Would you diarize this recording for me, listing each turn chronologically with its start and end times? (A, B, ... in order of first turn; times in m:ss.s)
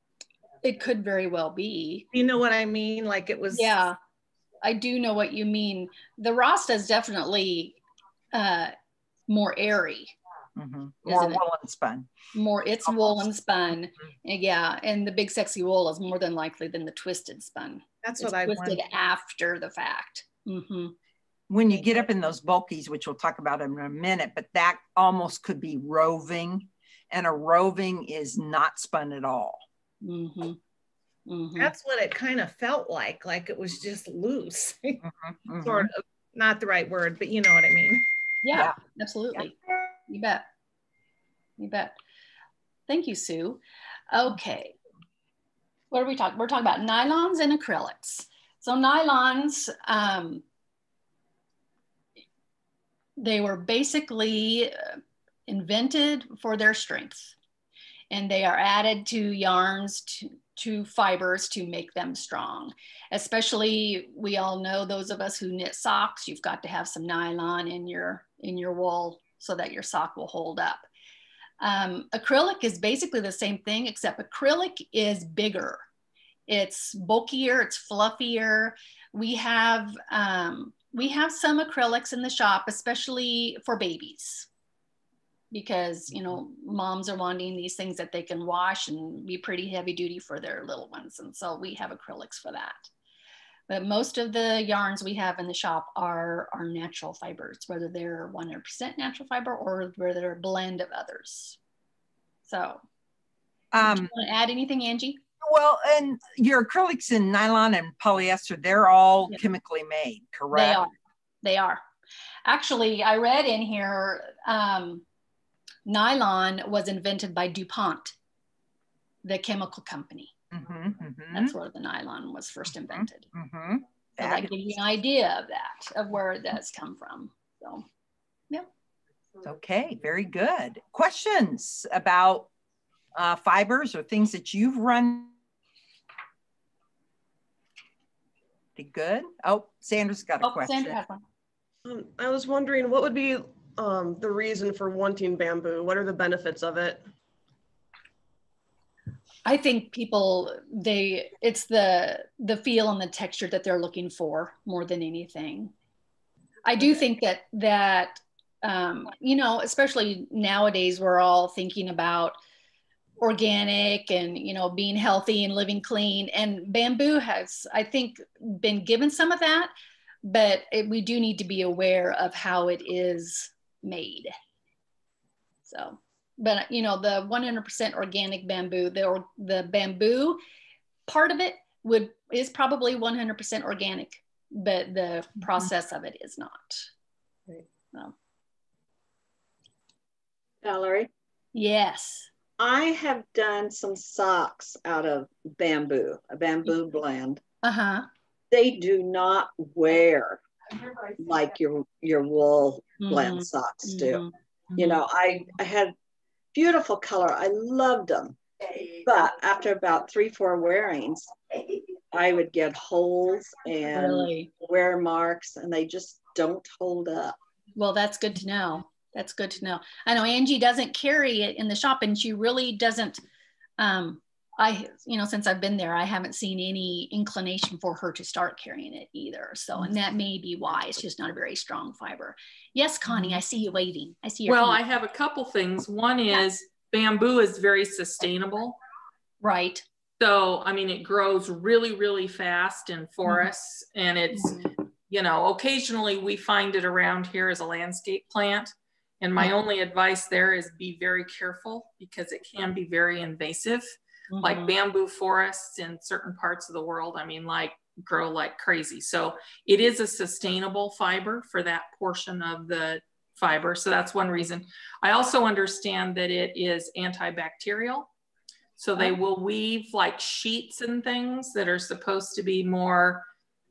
0:00.6-0:02.1 A
0:02.1-0:03.8 B
0:03.5-0:04.0 A
0:04.6-0:07.8 A
0:08.3-0:08.7 A
0:09.3-0:10.1 A
0:10.6-0:12.1 C
0:11.1-0:11.4 A
0:12.3-0:20.9 A
0:12.9-0:13.2 C
0:18.0-0:18.8 B
0:21.5-0:29.6 C
0:30.0-0:30.6 A
0:31.3-0:31.7 A
0:31.6-0:35.0 B
0:35.0-0:35.9 C
0:35.6-0:38.0 B
0:38.4-0:39.5 A
0:40.0-0:40.4 A
0:41.6-0:41.9 A
0:42.9-0:44.7 A
0:45.9-0:50.4 A
0:53.2-0:55.0 A
0:55.5-0:57.3 A
0:58.1-1:10.8 A
1:11.6-1:15.8 A
1:16.5-1:24.5 A
1:25.5-1:32.9 A
1:33.7-1:41.6 A
1:42.4-1:42.8 A
1:43.7-1:44.1 C
1:43.8-1:45.2 A
1:45.4-1:50.8 C
1:50.5-1:51.8 A
1:52.4-1:55.0 A
1:55.8-1:58.1 A
1:59.2-2:00.3 A
2:00.5-2:01.5 C
2:01.3-2:03.3 A
2:02.9-2:04.8 C
2:04.2-2:07.8 A
2:09.4-2:12.5 C
2:13.1-2:15.3 C
2:18.8-2:21.0 C
2:20.4-2:21.2 A
2:21.8-2:27.0 D
2:29.4-2:35.7 A
2:36.6-2:42.4 A
2:43.2-2:49.7 A
2:50.2-2:54.3 A
2:55.6-3:00.4 A
3:01.1-3:06.9 A
3:10.6-3:11.1 E
3:11.5-3:12.3 A
3:12.6-3:17.4 E
3:17.6-3:18.1 A
3:18.5-3:20.4 E
3:21.1-3:24.2 E
3:23.0-3:24.3 A
3:24.7-3:25.9 E
3:26.5-3:28.4 E
3:29.0-3:31.3 E
3:32.1-3:37.4 E
3:33.9-3:34.5 A
3:37.7-3:43.2 A
3:43.8-3:54.8 A
3:54.4-3:58.8 F
3:59.4-3:59.8 A
4:00.2-4:28.1 F
4:04.3-4:04.7 A
4:14.3-4:14.7 A
4:28.8-4:33.2 F